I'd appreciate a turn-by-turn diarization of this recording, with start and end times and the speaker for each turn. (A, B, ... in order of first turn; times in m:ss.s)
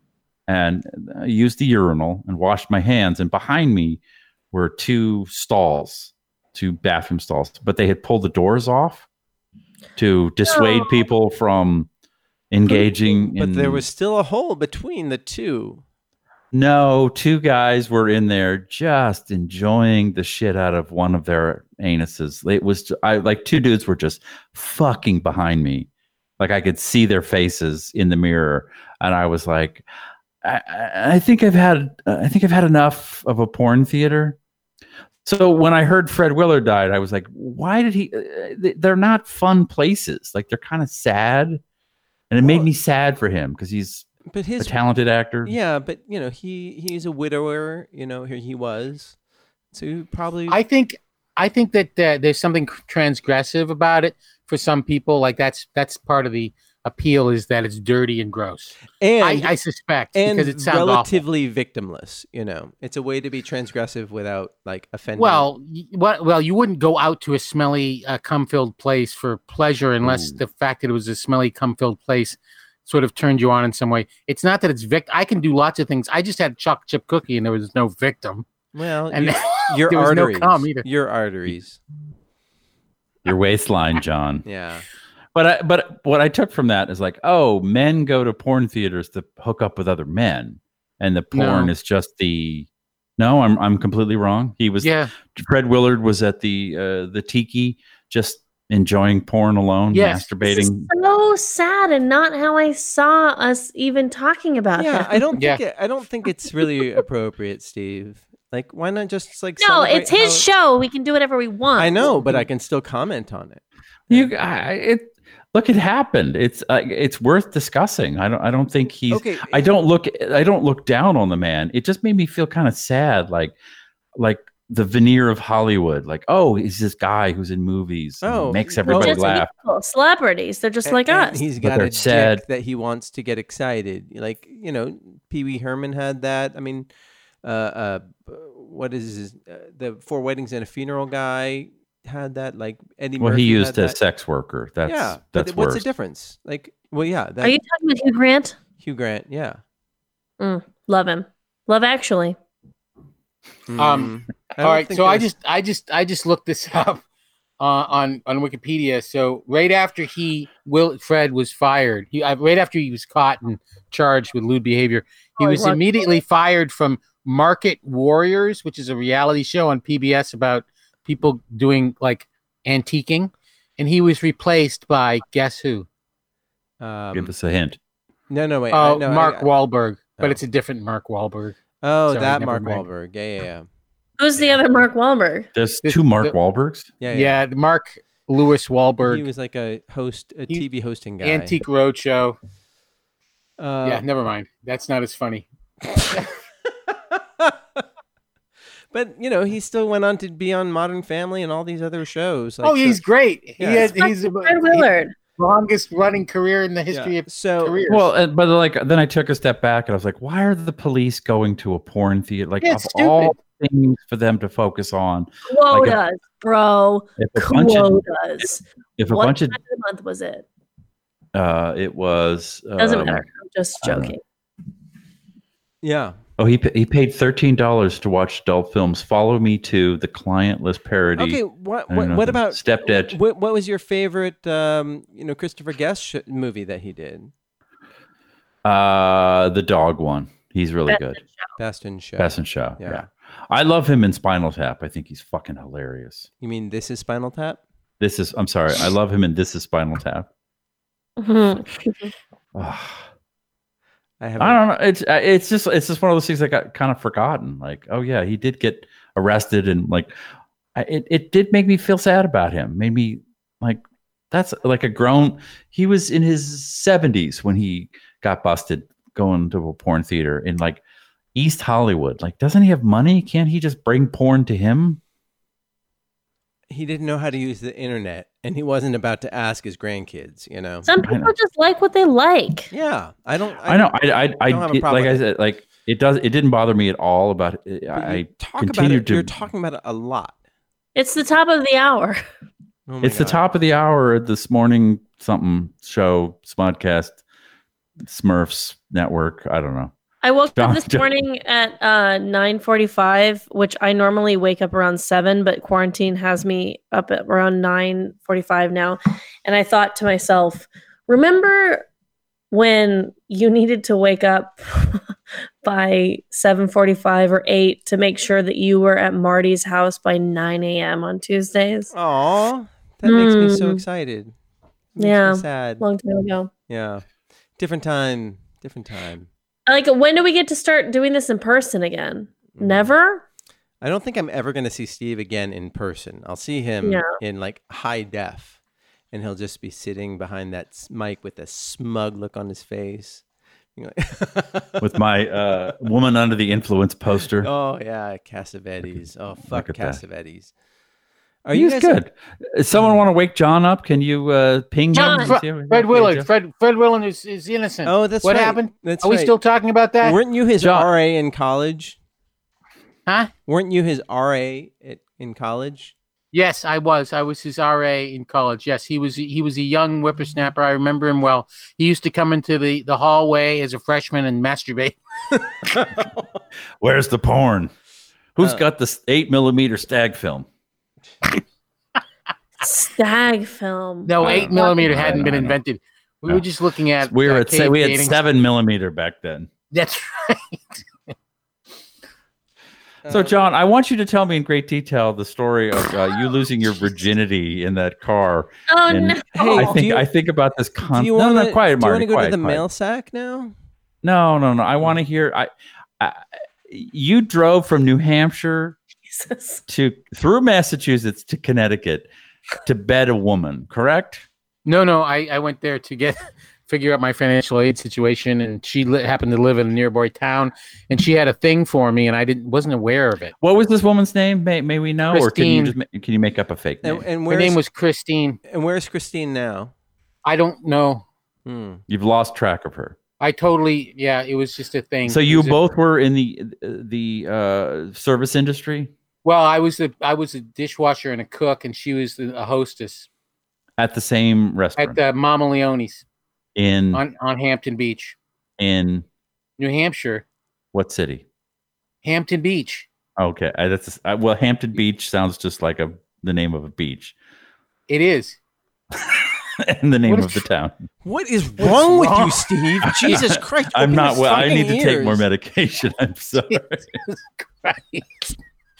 0:00.5-0:04.0 A
0:04.5-0:09.0 A
0:10.0-0:11.9 A
0:10.5-0:11.0 B
0:12.5-0:13.8 A
0:13.3-0:15.8 C
0:16.5-0:25.9 A
0:26.4-0:29.8 A
0:30.4-0:34.4 A
0:35.2-0:41.6 A
0:42.3-0:44.1 A
0:44.3-0:44.8 C
0:44.6-0:45.5 A
0:45.4-0:49.1 C
0:49.7-0:50.6 C
0:50.5-1:01.2 D
0:59.0-0:59.5 C
1:00.1-1:05.5 C
1:05.2-1:18.5 D
1:10.0-1:10.4 A
1:18.7-1:21.8 C
1:19.1-1:20.8 D
1:23.2-1:24.4 A
1:24.4-1:24.8 C
1:25.3-1:40.9 A
1:31.3-1:31.7 D
1:34.8-1:35.1 D
1:39.9-1:40.3 D
1:40.4-1:45.3 B
1:44.7-1:50.4 C
1:49.6-1:52.2 B
1:51.8-1:54.3 C
1:54.1-2:03.5 A
1:59.1-1:59.7 C
2:04.2-2:09.5 A
2:08.2-2:09.3 C
2:08.8-2:11.5 B
2:10.8-2:16.9 C
2:11.6-2:12.4 A
2:17.4-2:24.0 C
2:23.2-2:25.8 A
2:24.8-2:27.6 C
2:27.4-2:28.6 B
2:28.8-2:29.6 C
2:30.4-2:32.4 B
2:33.7-2:35.3 C
2:33.8-2:37.0 D
2:37.6-2:55.9 D
2:45.4-2:46.1 B
2:56.8-2:57.3 C
2:57.1-2:57.8 A
2:58.3-2:59.5 C
2:58.7-3:01.6 D
3:01.8-3:03.6 C
3:02.1-3:02.8 D
3:04.2-3:05.5 B
3:05.5-3:06.9 A
3:05.8-3:06.4 D
3:07.0-3:07.4 C
3:07.1-3:09.2 D
3:09.0-3:11.6 C
3:11.2-3:12.4 D
3:13.6-3:14.0 C
3:13.8-3:16.2 D
3:17.4-3:17.8 C
3:18.9-3:23.0 C
3:22.6-3:28.1 D
3:23.6-3:23.9 C
3:23.8-3:25.1 B
3:26.9-3:27.8 C
3:27.9-3:36.0 A
3:32.6-3:33.4 D
3:35.5-3:40.4 B
3:37.2-3:39.6 A
3:41.3-3:43.2 A
3:42.8-3:44.2 B
3:43.8-3:44.1 A
3:45.8-3:46.2 C
3:46.4-3:53.2 A
3:51.2-3:57.3 C
3:58.6-4:01.2 A
4:00.9-4:01.4 B
4:01.6-4:03.0 C
4:02.2-4:06.3 A
4:06.4-4:07.6 C
4:08.0-4:10.3 A
4:11.2-4:12.1 B
4:12.5-4:13.0 A
4:14.2-4:14.6 C
4:14.4-4:20.1 A
4:20.7-4:30.8 A
4:31.3-4:35.0 A
4:36.7-4:40.9 C
4:40.8-4:42.7 B
4:41.0-4:41.3 A
4:42.7-4:45.2 C
4:43.6-4:49.3 A
4:47.9-4:50.3 C
4:50.9-4:52.2 B
4:52.9-4:53.4 C
4:53.0-4:57.2 A
4:58.0-4:59.9 A
5:00.2-5:11.8 B
5:00.6-5:01.1 A
5:12.5-5:15.0 B
5:15.6-5:21.9 B
5:21.9-5:24.3 C
5:23.0-5:23.8 B
5:25.0-5:25.8 C
5:25.0-5:26.5 B
5:26.7-5:27.0 C
5:27.6-5:29.3 C
5:29.7-5:33.2 B
5:32.6-5:32.9 C
5:33.8-5:38.6 C
5:36.8-5:37.2 B
5:39.1-5:43.2 C
5:43.8-5:44.9 C
5:44.8-5:47.5 A
5:47.4-5:50.5 C
5:49.5-5:50.0 A
5:51.4-5:52.0 C
5:51.5-5:56.3 A
5:54.9-6:00.2 D
5:54.9-5:55.3 B
5:57.8-5:59.3 C
6:00.0-6:02.0 C
6:00.6-6:00.9 A
6:03.0-6:03.3 D
6:03.5-6:05.9 C
6:06.3-6:15.8 D
6:16.8-6:17.7 A
6:18.4-6:20.5 A
6:22.6-6:25.2 B
6:24.0-6:28.2 D
6:24.2-6:25.5 A
6:27.0-6:29.5 A
6:29.7-6:30.8 D
6:33.0-6:33.3 C
6:33.1-6:42.6 A
6:38.7-6:39.8 B
6:39.3-6:40.0 C
6:40.8-6:43.5 C
6:44.0-6:48.8 A
6:49.1-6:49.6 B
6:49.7-6:52.1 A
6:52.6-6:54.2 A
6:54.6-7:03.3 D
7:03.4-7:07.0 A
7:05.1-7:05.8 D
7:06.8-7:07.6 C
7:07.3-7:08.4 D
7:08.5-7:09.7 C
7:10.2-7:11.0 D
7:11.4-7:11.8 C
7:11.9-7:13.0 A
7:13.2-7:15.6 D
7:15.0-7:18.9 A
7:19.2-7:23.1 D
7:23.8-7:25.0 A
7:24.8-7:26.0 D
7:26.6-7:27.0 A
7:26.9-7:28.2 D
7:28.6-7:29.0 A
7:29.6-7:30.2 D
7:30.7-7:31.2 A
7:32.0-7:32.9 D
7:33.2-7:37.1 A
7:37.9-7:38.4 D
7:39.0-7:40.8 A
7:40.1-7:40.4 D
7:41.0-7:45.2 C
7:41.6-7:43.2 D
7:42.9-7:47.0 A
7:46.5-7:48.4 D